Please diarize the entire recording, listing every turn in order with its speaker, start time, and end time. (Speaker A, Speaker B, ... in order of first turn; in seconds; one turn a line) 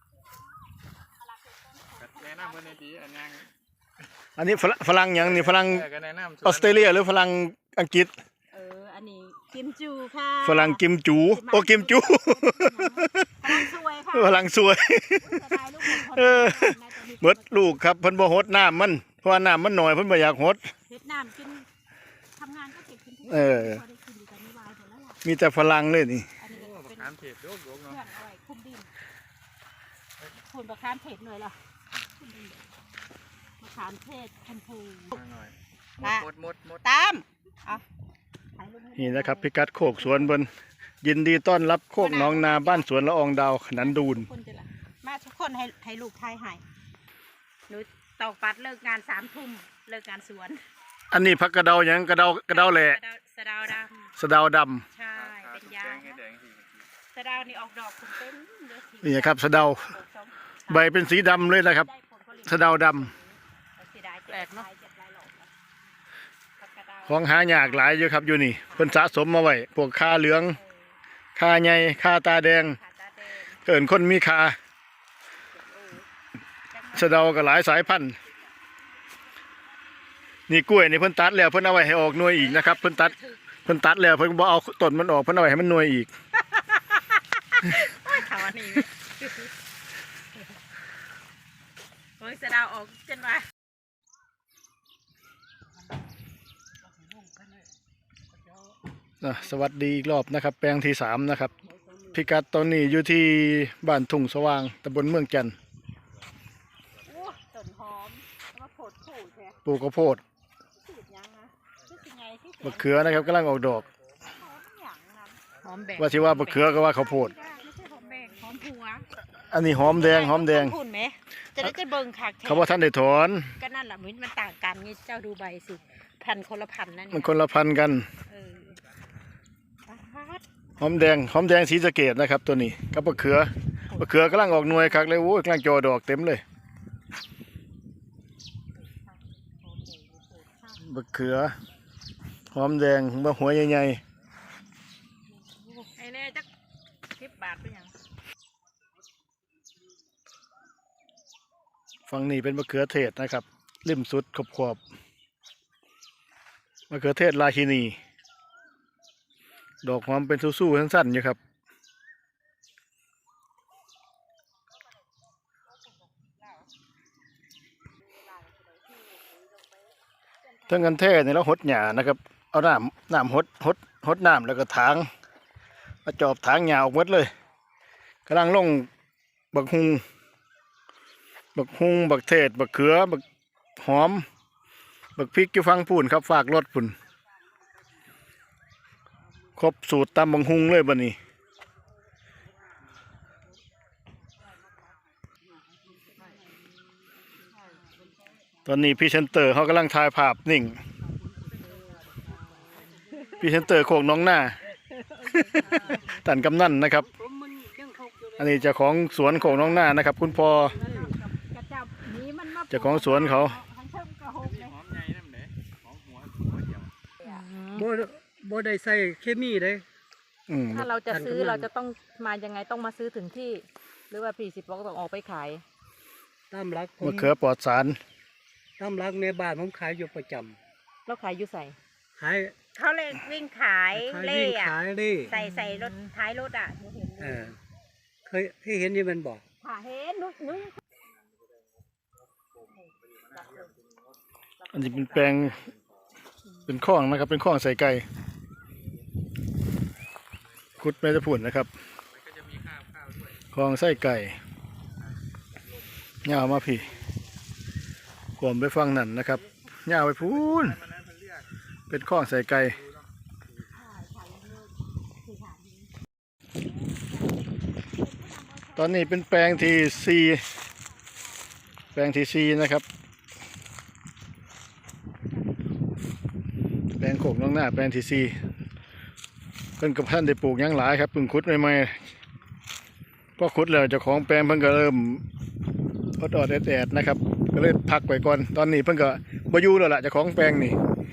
Speaker A: 1.2-2.8
Speaker B: 2.0-3.5
Speaker C: 4.4-5.9
Speaker B: 5.1-6.9
Speaker C: 6.4-8.1
Speaker A: 8.5-14.4
Speaker C: 10.4-20.6
Speaker A: 15.2-17.8
Speaker A: 20.9-21.7
Speaker A: 22.4-25.2
Speaker C: 23.3-23.8
Speaker C: 25.2-26.3
Speaker A: 26.4-27.1
Speaker B: 26.5-28.0
Speaker A: 27.9-28.9
Speaker A: 30.4-31.6
Speaker A: 33.6-35.1
Speaker B: 35.1-36.8
Speaker A: 36.0-36.3
Speaker A: 36.8-37.8
Speaker A: 38.6-40.3
Speaker C: 39.0-40.5
Speaker C: 41.0-44.3
Speaker A: 42.0-42.9
Speaker D: 43.8-44.7
Speaker A: 45.0-46.6
Speaker A: 47.7-50.6
Speaker C: 51.1-53.0
Speaker A: 52.5-54.1
Speaker C: 54.2-54.9
Speaker A: 54.9-56.2
Speaker B: 55.1-56.9
Speaker A: 57.1-65.5
Speaker C: 59.0-59.9
Speaker C: 60.7-61.9
Speaker C: 62.5-63.1
Speaker D: 64.3-64.7
Speaker A: 66.6-68.0
Speaker C: 67.1-70.6
Speaker A: 68.6-69.2
Speaker A: 70.5-70.8
Speaker C: 71.4-72.8
Speaker A: 72.7-73.6
Speaker C: 73.7-74.6
Speaker A: 75.5-76.0
Speaker A: 76.7-77.5
Speaker C: 76.9-78.2
Speaker C: 80.5-83.1
Speaker A: 82.4-83.4
Speaker C: 83.7-86.1
Speaker A: 87.5-89.5
Speaker A: 92.2-93.4
Speaker C: 99.2-101.5
Speaker A: 101.6-102.1
Speaker C: 102.1-105.5
Speaker A: 107.0-109.6
Speaker B: 107.1-107.4
Speaker C: 109.7-110.2
Speaker A: 110.8-113.2
Speaker C: 112.6-113.8
Speaker B: 113.1-114.3
Speaker A: 114.3-115.4
Speaker D: 115.6-116.7
Speaker C: 116.0-117.3
Speaker A: 116.7-119.0
Speaker C: 119.5-120.8
Speaker A: 119.8-122.8
Speaker C: 122.5-123.5
Speaker A: 123.6-127.5
Speaker C: 127.1-128.1
Speaker A: 128.3-128.8
Speaker A: 129.9-130.4
Speaker C: 130.8-136.4
Speaker D: 139.7-139.9
Speaker D: 140.5-140.8
Speaker C: 140.8-141.6
Speaker C: 142.5-144.0
Speaker D: 145.4-146.5
Speaker D: 147.1-147.9
Speaker C: 152.1-154.8
Speaker C: 156.9-158.0
Speaker C: 159.8-161.4
Speaker A: 168.1-169.9
Speaker C: 170.7-175.1
Speaker C: 176.1-177.3
Speaker C: 178.3-178.9
Speaker C: 179.5-180.0
Speaker C: 181.6-183.2
Speaker C: 183.8-184.3
Speaker C: 185.2-187.0
Speaker C: 189.6-191.2
Speaker A: 195.9-196.4
Speaker A: 197.5-198.4
Speaker D: 197.6-197.8
Speaker C: 198.7-200.8
Speaker A: 201.4-203.7
Speaker D: 201.6-203.4
Speaker C: 203.4-204.6
Speaker C: 205.3-207.1
Speaker A: 205.6-206.0
Speaker D: 205.8-206.1
Speaker C: 208.4-210.8
Speaker A: 210.6-214.8
Speaker E: 210.7-211.1
Speaker C: 212.7-213.6
Speaker B: 214.4-216.9
Speaker D: 217.2-217.9
Speaker E: 217.7-219.8
Speaker C: 220.5-220.9
Speaker D: 220.7-225.6
Speaker E: 221.1-221.7
Speaker E: 226.5-227.3
Speaker C: 227.0-228.0
Speaker E: 228.8-230.6
Speaker D: 231.1-231.8
Speaker E: 232.2-232.6
Speaker A: 232.7-234.8
Speaker E: 233.9-235.3
Speaker A: 235.3-237.5
Speaker D: 235.3-236.1
Speaker E: 237.2-237.6
Speaker E: 238.3-239.4
Speaker A: 239.6-240.8
Speaker B: 240.9-244.2
Speaker C: 244.7-245.6
Speaker B: 245.1-246.1
Speaker C: 246.7-248.1
Speaker B: 250.4-251.0
Speaker C: 250.8-251.7
Speaker B: 252.1-253.5
Speaker C: 253.5-254.4
Speaker B: 255.0-257.3
Speaker C: 256.2-256.9
Speaker C: 258.4-260.8
Speaker B: 260.2-261.5
Speaker C: 261.9-262.8
Speaker B: 262.5-263.6
Speaker A: 263.7-265.9
Speaker A: 268.0-270.0
Speaker C: 268.8-270.4
Speaker C: 271.9-272.9
Speaker C: 277.0-278.4
Speaker C: 279.8-282.0
Speaker C: 283.4-285.2
Speaker C: 286.2-290.8